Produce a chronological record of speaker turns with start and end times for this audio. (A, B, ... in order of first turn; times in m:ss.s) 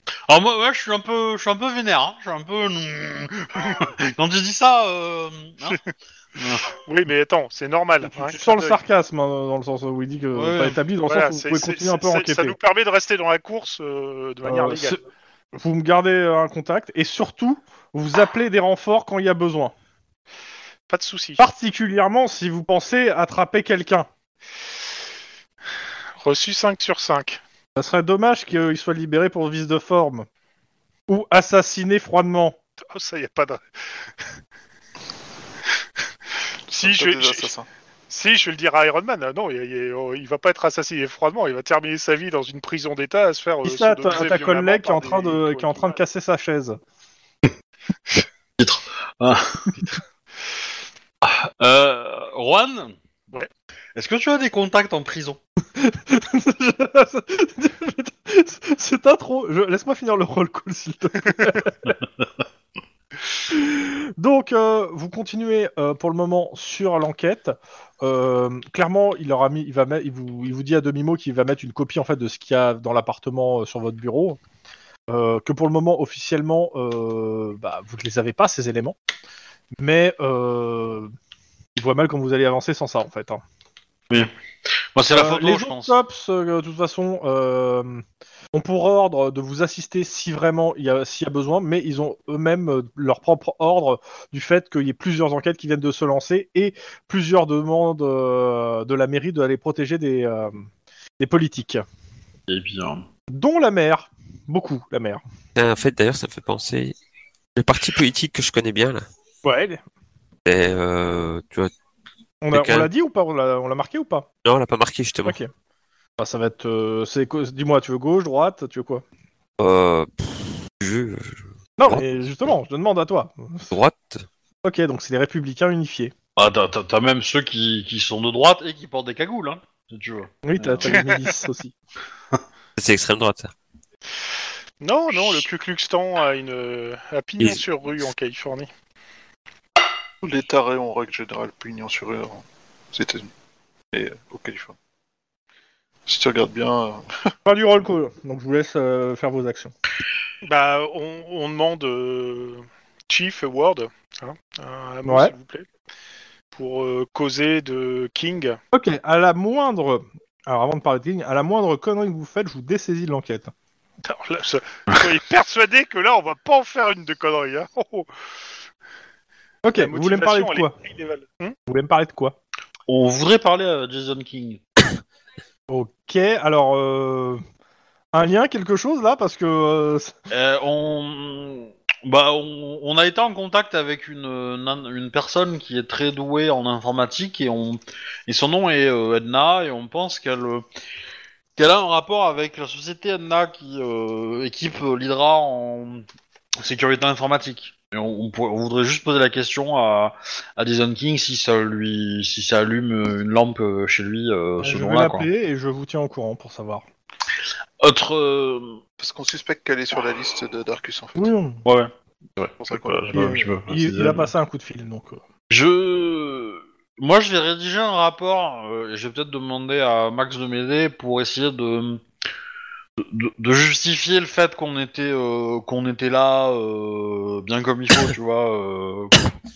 0:00.3-0:05.8 A
0:06.4-0:06.7 A
0:06.8-0:08.8 B
0:08.0-0:12.6 C
0:10.3-0:10.8 A
0:11.1-0:15.0 B
0:14.4-0:15.0 C
0:15.5-0:19.7 C
0:20.9-0:21.4 B
0:21.4-0:24.1 C
0:26.2-0:27.4 B
0:27.8-0:30.3 C
0:31.1-0:32.6 C
0:32.8-0:33.6 B
0:36.7-0:37.6 D
0:36.7-0:37.5 B
0:38.1-0:46.0 B
0:43.6-0:46.8 C
0:48.6-0:49.7 A
0:51.2-0:53.0 A
0:53.9-0:55.4 A
0:55.8-1:01.9 C
1:03.5-1:14.4 C
1:15.1-1:19.0 C
1:19.8-1:21.1 C
1:21.8-1:23.4 C
1:24.9-1:25.9 A
1:25.1-1:40.6 C
1:41.2-1:41.8 C
1:42.5-1:43.0 A
1:43.3-1:45.2 C
1:45.6-1:46.9 E
1:47.6-1:49.0 E
1:49.4-1:49.8 C
1:50.4-1:51.7 E
1:52.4-1:54.3 C
1:52.5-1:52.9 E
1:54.4-1:55.4 E
1:55.2-1:55.5 C
1:56.2-1:59.0 C
1:59.6-2:02.0 E
2:01.8-2:03.7 C
2:03.7-2:04.2 E
2:04.6-2:06.1 C
2:06.4-2:11.0 A
2:10.4-2:11.7 C
2:10.9-2:11.3 B
2:12.8-2:13.5 E
2:14.8-2:18.7 B
2:20.2-2:23.3 D
2:23.9-2:24.7 D
2:26.1-2:27.3 D
2:27.4-2:29.7 C
2:30.4-2:35.6 B
2:35.0-2:35.3 C
2:36.5-2:38.6 B
2:38.7-2:43.5 C
2:44.0-2:48.1 B
2:49.6-2:50.7 C
2:49.8-2:51.6 B
2:51.7-2:52.4 C
2:52.9-2:54.6 A
2:55.7-2:57.4 C
2:58.1-3:00.1 C
3:00.3-3:10.6 A
3:11.6-3:16.0 A
3:16.6-3:25.3 A
3:24.6-3:26.8 C
3:27.8-3:28.8 A
3:29.0-3:31.3 D
3:31.2-3:31.6 C
3:31.6-3:34.3 A
3:32.6-3:33.2 D
3:33.1-3:35.2 C
3:35.5-3:42.0 A
3:43.0-3:49.2 A